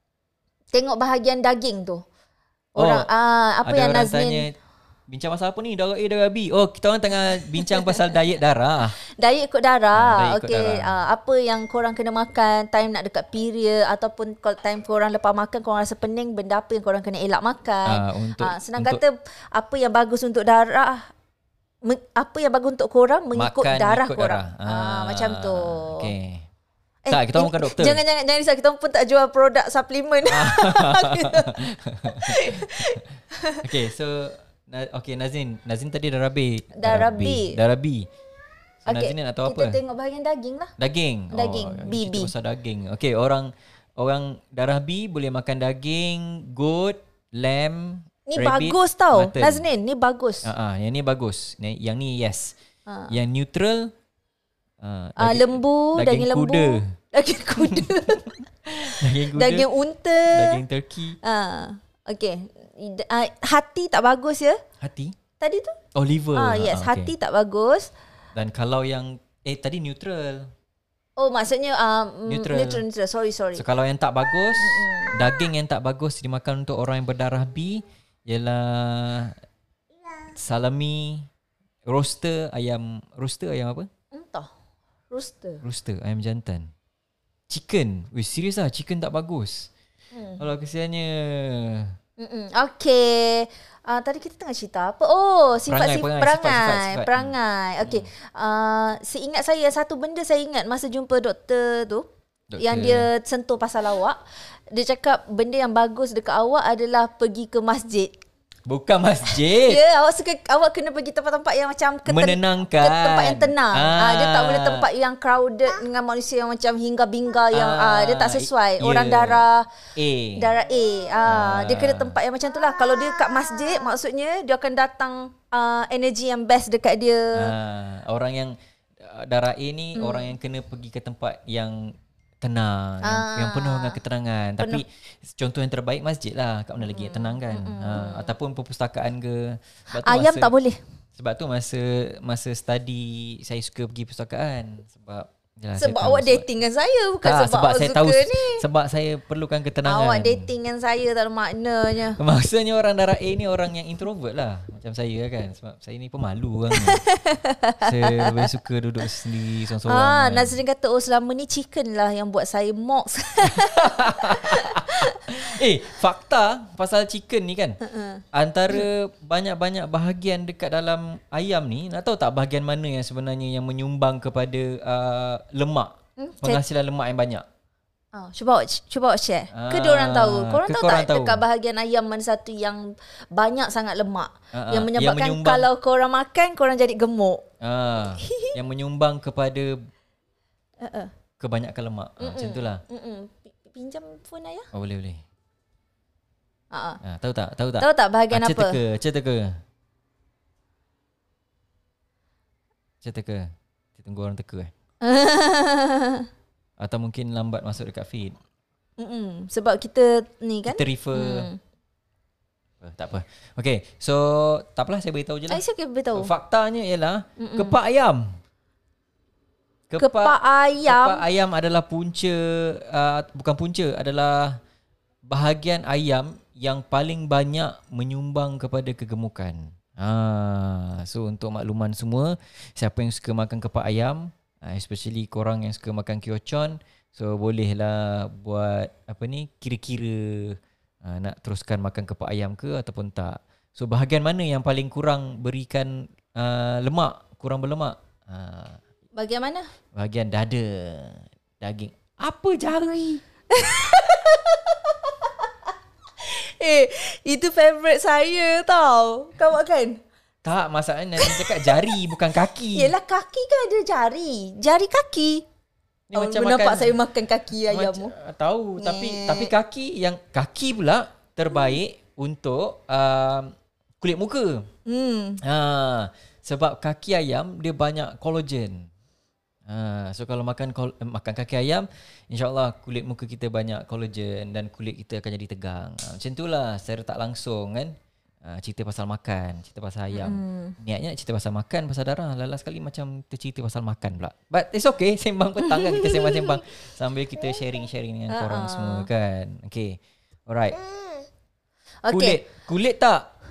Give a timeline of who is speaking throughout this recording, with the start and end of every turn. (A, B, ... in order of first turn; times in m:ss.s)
0:00.7-0:02.0 A
0:02.8-0:04.5 A
0:02.8-0:03.1 B
0:03.6-0:04.6 B
0:05.1-0:09.0 B
0:07.5-0:08.0 A
0:09.0-0:21.1 A
0:09.9-0:11.0 B
0:17.9-0:19.0 B
0:21.8-0:26.1 A
0:23.3-0:26.5 B
0:27.0-0:33.7 A
0:27.1-0:28.0 B
0:30.3-0:33.0 B
0:33.6-0:38.1 B
0:36.8-0:37.6 A
0:38.8-0:39.8 B
0:38.9-0:40.7 A
0:40.8-0:49.6 B
0:41.3-0:42.3 A
0:48.3-0:50.5 A
0:50.4-0:52.6 B
0:52.9-0:53.2 A
0:53.1-0:53.9 B
0:54.8-0:57.0 B
0:55.2-0:58.3 A
0:57.6-0:59.7 B
0:58.8-1:00.6 A
1:00.3-1:01.2 B
1:01.2-1:04.6 A
1:04.8-1:05.2 B
1:05.4-1:05.8 A
1:06.0-1:07.1 B
1:06.4-1:07.9 A
1:08.4-1:10.5 B
1:11.2-1:13.6 A
1:12.3-1:12.8 B
1:13.6-1:19.4 B
1:14.6-1:15.2 A
1:20.4-1:21.3 B
1:21.9-1:23.9 B
1:24.1-1:24.5 A
1:25.1-1:25.6 A
1:25.6-1:26.7 B
1:27.5-1:29.7 B
1:30.1-1:30.4 A
1:30.4-1:32.0 B
1:32.2-1:42.1 A
1:35.7-1:38.1 B
1:42.5-1:43.1 B
1:42.6-1:48.2 A
1:48.7-1:49.8 B
1:49.3-1:59.7 A
1:52.1-1:54.9 B
1:57.5-2:00.5 B
2:00.4-2:07.5 A
2:01.2-2:02.2 B
2:07.4-2:20.5 B
2:10.0-2:10.3 A
2:13.0-2:14.0 A
2:14.6-2:14.8 A
2:16.8-2:18.3 A
2:20.0-2:20.8 A
2:21.2-2:26.5 B
2:25.8-2:28.6 A
2:27.2-2:30.5 B
2:29.8-2:32.2 A
2:32.2-2:37.0 B
2:36.7-2:38.5 A
2:37.8-2:40.6 B
2:39.8-2:45.2 A
2:43.4-2:47.8 B
2:47.8-2:48.9 A
2:48.3-2:57.4 B
2:56.2-2:56.6 A
2:58.1-3:07.4 A
2:59.5-3:01.4 B
3:04.5-3:05.7 B
3:07.6-3:09.9 B
3:08.2-3:08.6 A
3:10.8-3:11.1 A
3:11.4-3:12.8 B
3:12.2-3:14.7 A
3:14.7-3:15.2 B
3:16.7-3:17.0 A
3:17.0-3:19.6 B
3:17.8-3:18.8 A
3:23.0-3:24.7 B
3:25.0-3:26.3 A
3:26.8-3:28.4 B
3:29.0-3:31.6 A
3:30.7-3:31.5 B
3:32.8-3:35.6 B
3:35.5-3:36.3 A
3:36.2-3:38.4 B
3:37.4-3:37.8 A
3:39.9-3:44.6 B
3:40.0-3:41.2 A
3:45.3-4:08.8 B
4:09.2-4:09.7 A
4:10.0-4:13.2 B
4:13.5-4:20.0 A
4:20.4-4:22.9 B
4:21.2-4:22.0 A
4:22.7-4:25.4 A
4:26.1-4:27.0 B
4:26.2-4:28.1 A
4:27.6-4:34.7 B
4:28.8-4:29.5 A
4:34.9-4:35.4 A
4:35.4-4:38.9 B
4:39.7-5:00.8 B
4:50.1-4:50.8 A
4:55.6-4:56.6 A
4:58.3-4:59.1 A
5:02.0-5:02.4 A
5:02.1-5:03.3 B